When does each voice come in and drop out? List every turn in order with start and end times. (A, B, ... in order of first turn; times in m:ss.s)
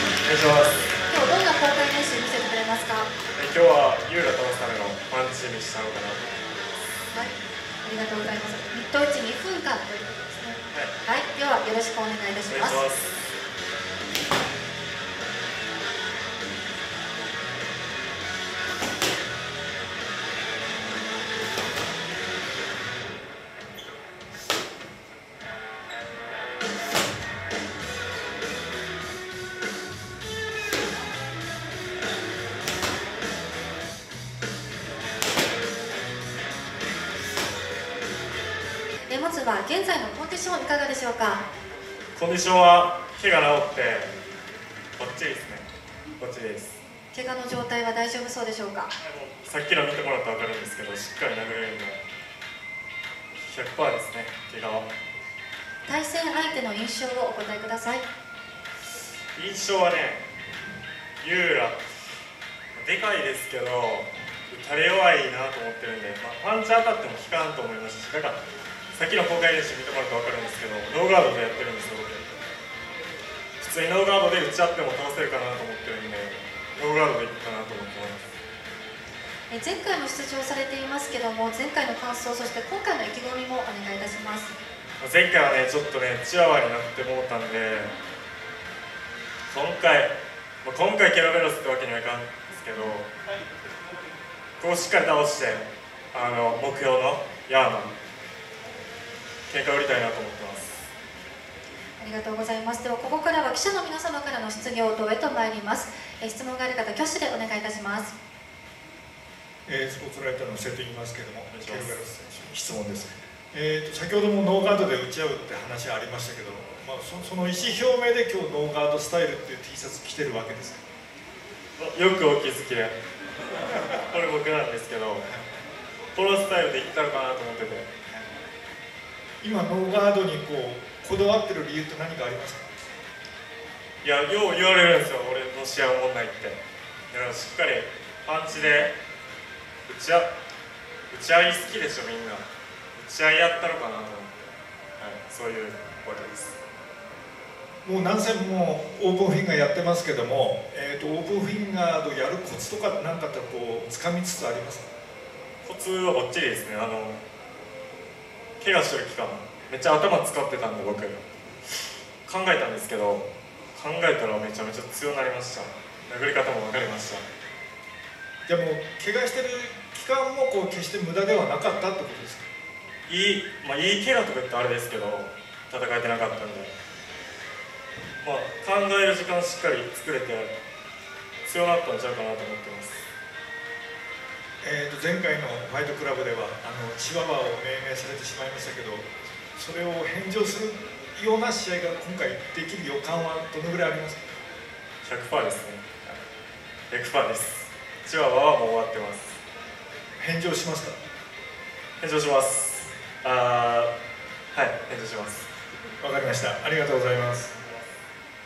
0:00.2-0:00.9 A
0:01.1-0:03.1 B
0:03.4-0:07.1 A
0:07.8-0:12.8 B
0:10.7-0:10.9 A
0:12.5-0:13.3 A
0:39.1-0:41.4 B
0:42.2-0:44.1 A
0:45.0-0:45.7 A
0:46.2-0:46.8 A
0:47.1-0:48.9 B
0:49.0-0:52.0 A
0:53.4-0:54.9 A
0:55.9-0:58.0 B
0:59.3-1:00.3 A
1:01.2-1:01.8 A
1:02.7-1:08.4 A
1:08.9-1:12.4 A
1:13.6-1:18.3 A
1:19.5-1:24.5 B
1:25.0-1:27.9 A
1:29.5-1:30.1 A
1:30.6-1:33.1 A
1:34.6-1:37.9 A
1:39.5-1:40.9 A
1:42.0-1:48.1 B
1:49.7-2:00.8 C
1:51.5-1:52.4 A
2:01.8-2:03.0 A
2:03.5-2:05.3 A
2:06.1-2:07.9 A
2:09.4-2:12.6 C
2:14.0-2:16.6 A
2:17.1-2:18.9 A
2:19.9-2:20.3 A
2:21.1-2:24.3 A
2:25.0-2:26.6 A
2:27.8-2:34.9 C
2:35.6-2:37.2 A
2:38.6-2:41.2 A
2:42.2-2:47.2 A
2:48.5-2:52.5 C
2:53.1-2:56.7 A
2:58.2-3:00.5 A
3:01.4-3:03.1 A
3:04.6-3:14.2 C
3:15.0-3:16.2 A
3:16.9-3:19.4 A
3:20.2-3:21.0 C
3:22.0-3:23.9 A
3:24.5-3:25.5 A
3:26.0-3:27.5 C